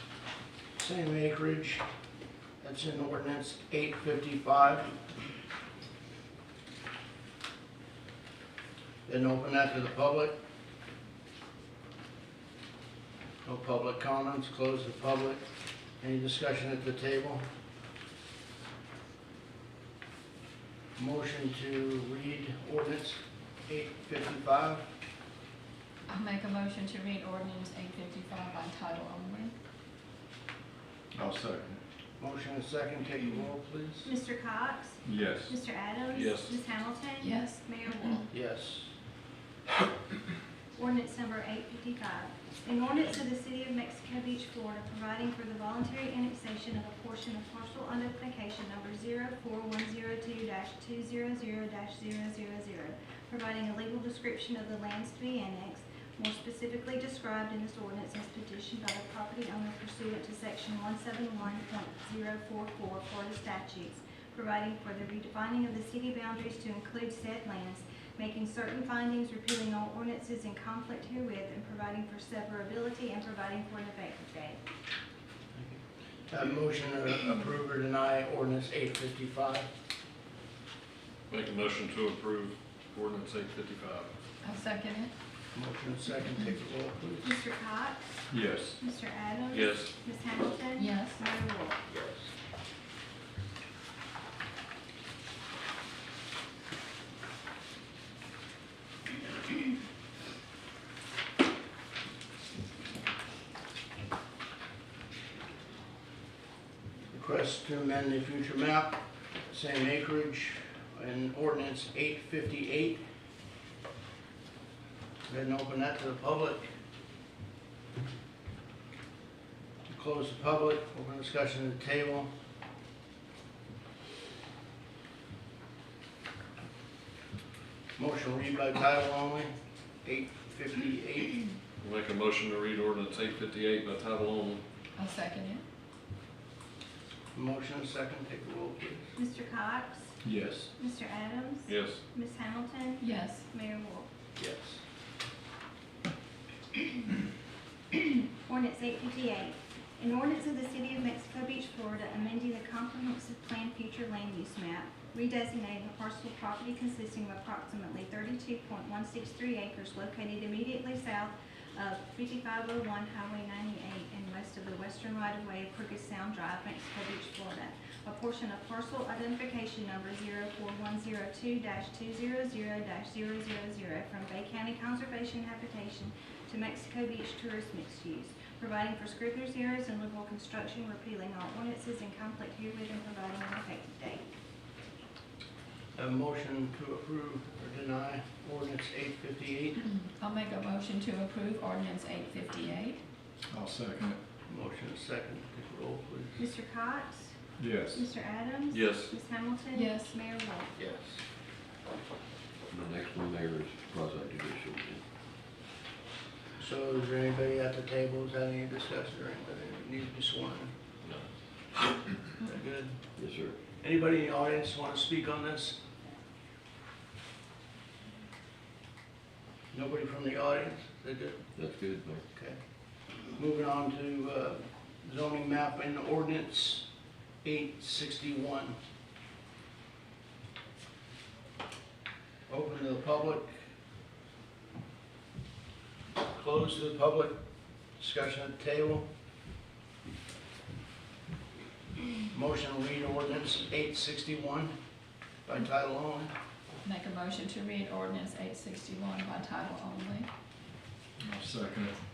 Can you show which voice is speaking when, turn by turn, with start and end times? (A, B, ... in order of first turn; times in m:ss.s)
0:00.8-0:01.8 A
0:02.6-0:05.0 A
0:09.0-0:10.4 A
0:13.4-0:15.4 A
0:16.0-0:17.4 A
0:21.0-0:24.8 A
0:26.1-0:29.5 B
0:31.1-0:31.8 C
0:32.2-0:34.1 A
0:34.0-0:38.3 D
0:35.0-0:35.5 C
0:36.2-0:36.5 E
0:37.2-0:38.3 B
0:38.3-0:38.9 A
0:40.8-1:14.6 D
1:16.3-1:19.7 A
1:21.3-1:24.1 E
1:24.4-1:25.1 B
1:25.5-1:27.4 A
1:27.2-1:28.1 D
1:28.3-1:28.8 C
1:28.8-1:31.8 D
1:29.5-1:29.9 E
1:30.8-1:31.2 B
1:31.9-1:32.2 A
1:47.1-1:49.0 A
1:49.5-1:53.0 A
1:55.3-1:56.7 A
1:59.9-2:02.3 A
2:08.0-2:09.5 A
2:10.0-2:11.4 A
2:11.8-2:14.6 E
2:13.3-2:14.0 C
2:15.0-2:15.6 B
2:17.3-2:19.1 A
2:19.2-2:20.2 D
2:20.2-2:20.7 C
2:20.8-2:24.1 D
2:21.7-2:22.0 E
2:23.0-2:23.5 B
2:24.4-2:24.8 A
2:28.4-3:04.2 D
3:05.9-3:09.8 A
3:09.8-3:13.0 B
3:13.5-3:14.2 C
3:14.5-3:16.4 A
3:16.4-3:17.4 D
3:17.6-3:18.0 C
3:17.9-3:20.7 D
3:18.7-3:19.1 E
3:19.7-3:20.1 B
3:20.8-3:21.2 A
3:22.7-3:25.0 F
3:26.6-3:30.7 A
3:32.4-3:33.0 A
3:33.2-3:33.6 F
3:33.8-3:35.8 A
3:39.7-3:41.4 A
3:41.6-3:42.2 F
3:43.3-3:46.9 A
3:47.4-3:48.8 A
3:52.5-3:53.6 A
3:56.3-3:57.3 A
3:58.0-3:59.0 A
4:02.3-4:04.7 A
4:05.4-4:06.3 A
4:06.8-4:10.3 B
4:11.2-4:12.0 C